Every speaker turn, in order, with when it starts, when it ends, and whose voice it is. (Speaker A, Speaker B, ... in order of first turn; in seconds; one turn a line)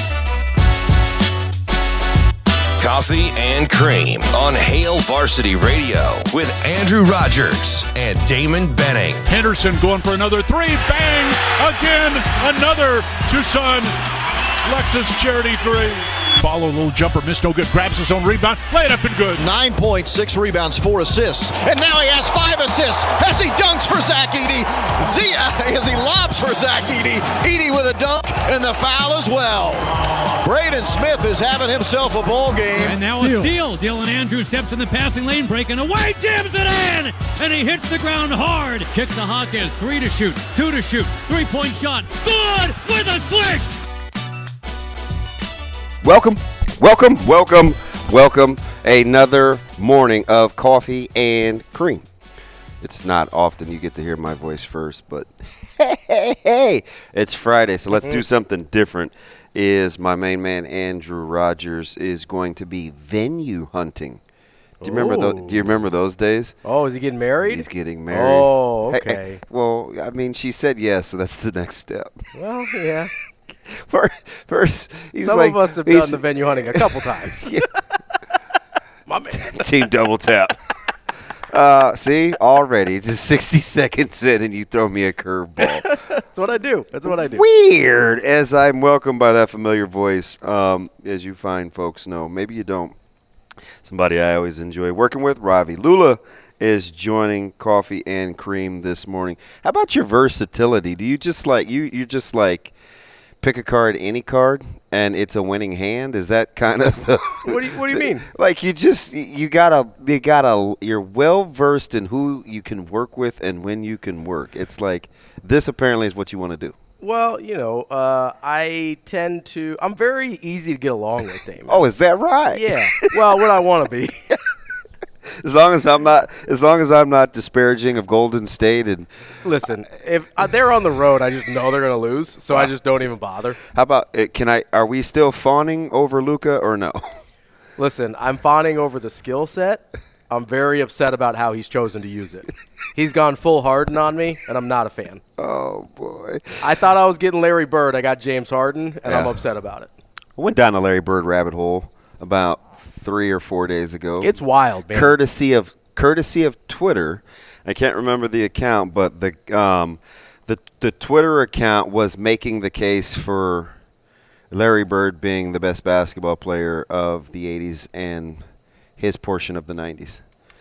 Speaker A: 2.8-9.3
Speaker B: 9.3-13.9
Speaker B: 14.6-19.4
Speaker C: 19.3-33.0
Speaker D: 32.8-43.8
Speaker E: 46.0-52.0
Speaker E: 52.8-64.2
Speaker F: 57.9-58.2
Speaker F: 64.8-65.6
Speaker E: 64.8-66.5
Speaker F: 66.6-69.4
Speaker E: 67.4-72.2
Speaker F: 72.3-73.1
Speaker E: 73.7-77.7
Speaker F: 75.2-77.5
Speaker F: 79.1-79.7
Speaker E: 79.3-80.6
Speaker E: 81.5-85.9
Speaker F: 85.7-87.4
Speaker E: 87.1-92.9
Speaker E: 93.8-102.7
Speaker E: 103.4-116.7
Speaker F: 107.4-108.3
Speaker F: 117.0-121.8
Speaker E: 121.7-123.1
Speaker F: 122.5-124.3
Speaker E: 125.3-129.1
Speaker F: 129.4-133.6
Speaker E: 133.7-137.1
Speaker F: 137.8-145.2
Speaker E: 145.4-146.6
Speaker F: 146.6-149.9
Speaker E: 149.1-149.3
Speaker E: 150.4-154.4
Speaker F: 154.2-155.2
Speaker E: 154.9-163.7
Speaker E: 164.5-168.4
Speaker E: 169.0-170.2